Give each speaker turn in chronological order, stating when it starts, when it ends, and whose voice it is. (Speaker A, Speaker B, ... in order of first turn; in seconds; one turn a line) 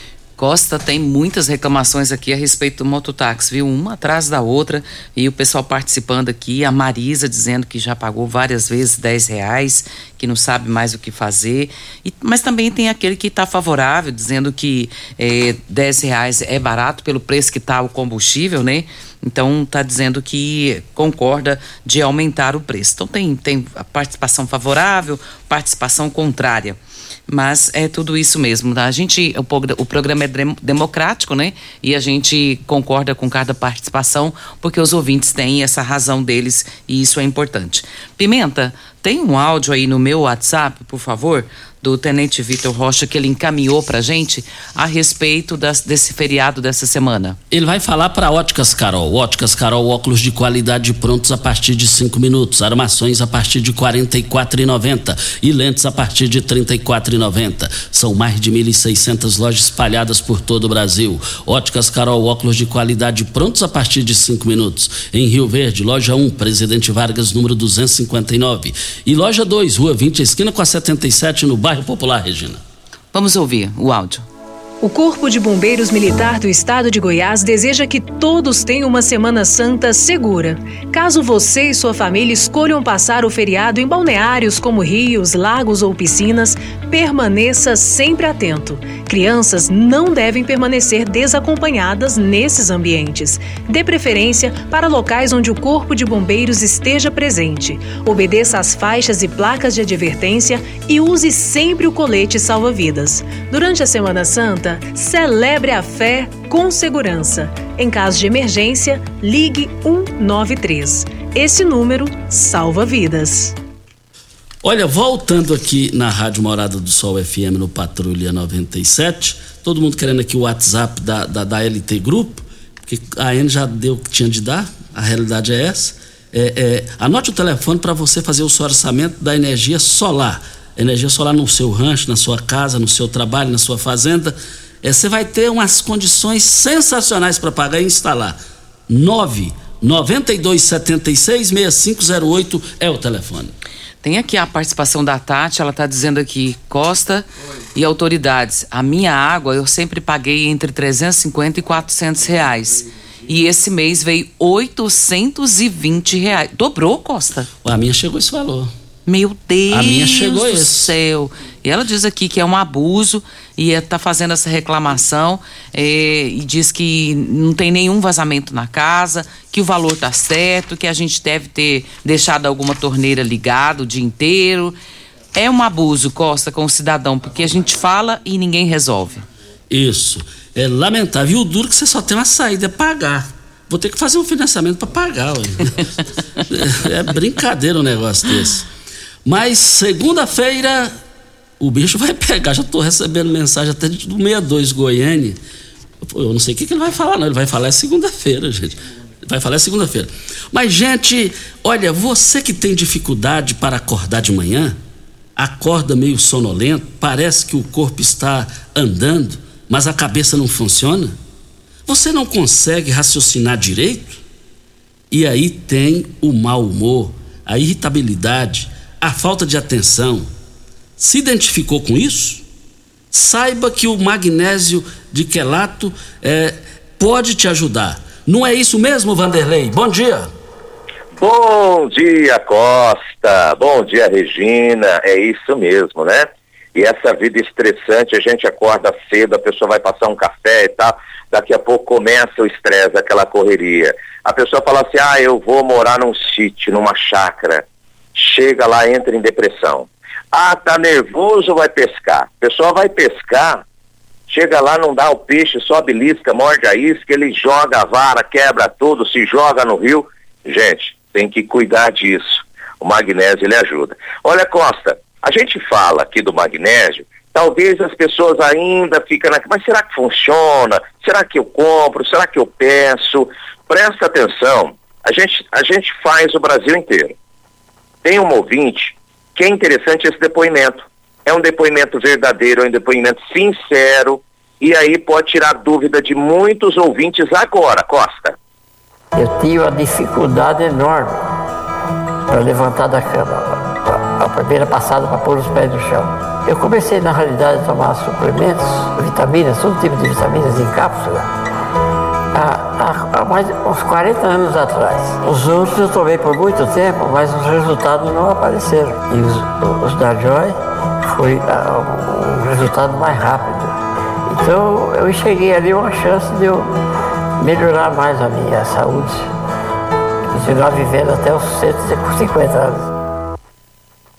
Speaker A: 0.4-47.4
Speaker B: 47.5-72.6
Speaker A: 73.1-74.2
Speaker C: 74.8-113.5
Speaker B: 114.6-143.5
Speaker A: 144.0-157.5
Speaker B: 157.6-158.7
Speaker A: 159.1-174.7
Speaker B: 159.7-160.9
Speaker A: 175.3-179.2
Speaker B: 179.7-185.8
Speaker B: 186.4-188.7
Speaker B: 189.2-191.0
Speaker B: 191.6-195.4
Speaker B: 196.0-204.8
Speaker B: 205.4-211.2
Speaker B: 211.8-214.2
Speaker B: 215.1-220.3
Speaker B: 221.0-222.4
Speaker B: 223.1-230.3
Speaker D: 231.2-253.6
Speaker D: 254.3-277.1
Speaker D: 278.0-288.4
Speaker E: 289.1-291.2
Speaker E: 292.3-301.3
Speaker E: 302.3-313.7
Speaker E: 314.3-316.7
Speaker E: 317.4-319.3
Speaker E: 320.3-322.9